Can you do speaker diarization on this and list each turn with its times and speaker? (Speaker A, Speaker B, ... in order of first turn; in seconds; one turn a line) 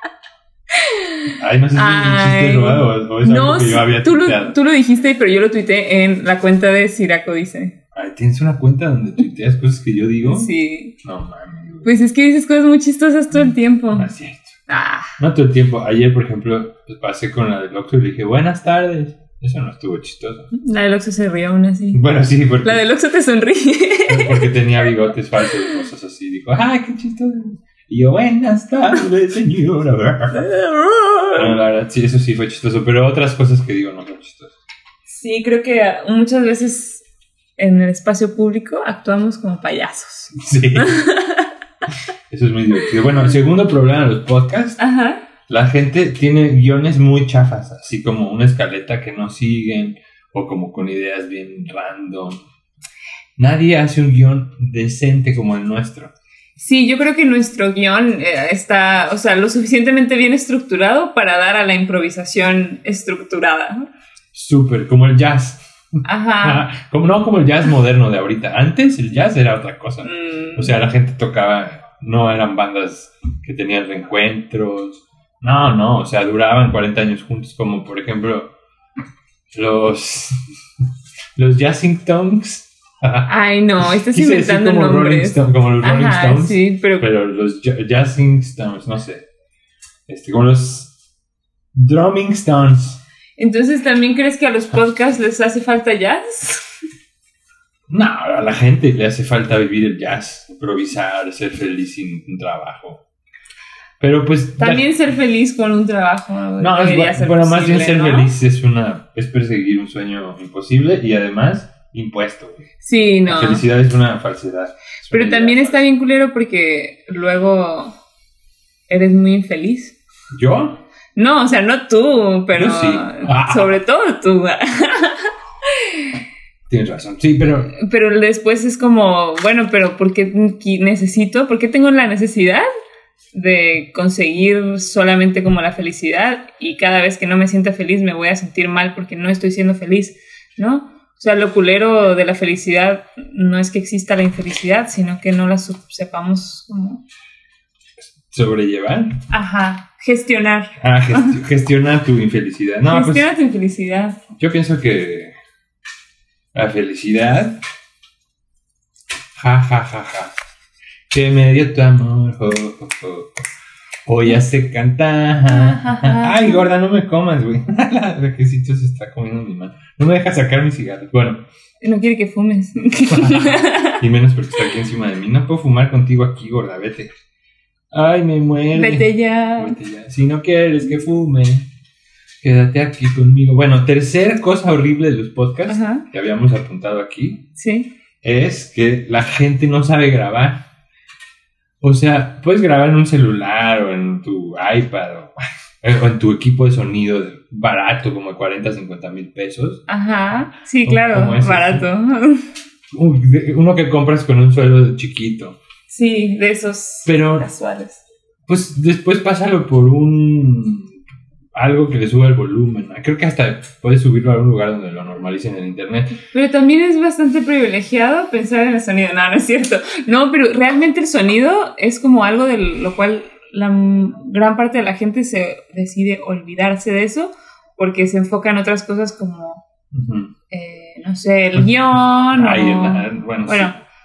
Speaker A: 0.8-7.8
Speaker B: 1.4-4.6
Speaker B: 7.9-11.9
Speaker A: 10.3-10.9
Speaker A: 11.8-14.1
Speaker B: 13.9-14.6
Speaker A: 14.7-15.1
Speaker B: 15.2-20.5
Speaker A: 20.5-22.0
Speaker B: 21.9-22.8
Speaker A: 22.6-24.5
Speaker B: 24.1-30.5
Speaker A: 30.3-31.6
Speaker B: 31.4-34.5
Speaker A: 35.0-37.0
Speaker A: 37.6-41.5
Speaker B: 40.4-41.0
Speaker B: 42.3-44.8
Speaker A: 44.8-45.2
Speaker B: 45.5-52.4
Speaker B: 53.4-56.1
Speaker A: 56.6-63.9
Speaker B: 64.3-65.7
Speaker A: 66.0-66.7
Speaker B: 66.4-78.5
Speaker A: 70.0-70.8
Speaker B: 79.5-80.4
Speaker B: 81.4-83.3
Speaker A: 83.3-87.1
Speaker B: 83.8-89.2
Speaker B: 90.1-90.9
Speaker B: 91.8-93.0
Speaker A: 93.4-96.7
Speaker B: 97.9-103.0
Speaker B: 104.0-104.9
Speaker A: 104.6-108.3
Speaker B: 106.6-112.6
Speaker A: 112.8-113.7
Speaker B: 113.3-115.9
Speaker A: 115.1-118.0
Speaker A: 118.9-120.0
Speaker B: 120.3-120.8
Speaker A: 121.2-125.3
Speaker B: 122.5-123.8
Speaker A: 125.8-126.1
Speaker B: 126.7-127.7
Speaker A: 127.8-132.7
Speaker A: 133.3-147.0
Speaker B: 148.3-149.2
Speaker A: 149.3-151.4
Speaker B: 150.8-153.3
Speaker A: 152.9-154.2
Speaker B: 154.4-155.3
Speaker B: 156.5-157.6
Speaker B: 159.3-160.4
Speaker B: 161.1-163.3
Speaker B: 164.1-171.4
Speaker A: 165.5-166.7
Speaker A: 171.8-174.0
Speaker B: 172.9-177.1
Speaker B: 177.9-181.7
Speaker A: 178.7-179.8
Speaker B: 182.4-187.4
Speaker A: 185.7-186.1
Speaker A: 187.6-187.9
Speaker B: 188.2-190.6
Speaker B: 191.8-199.8
Speaker A: 199.9-202.5
Speaker B: 200.8-201.9
Speaker B: 202.9-205.6
Speaker A: 205.9-208.0
Speaker B: 207.1-207.5
Speaker B: 208.5-211.0
Speaker B: 211.6-216.2
Speaker A: 216.3-229.6
Speaker B: 229.9-230.3
Speaker A: 230.5-233.8
Speaker B: 232.3-233.8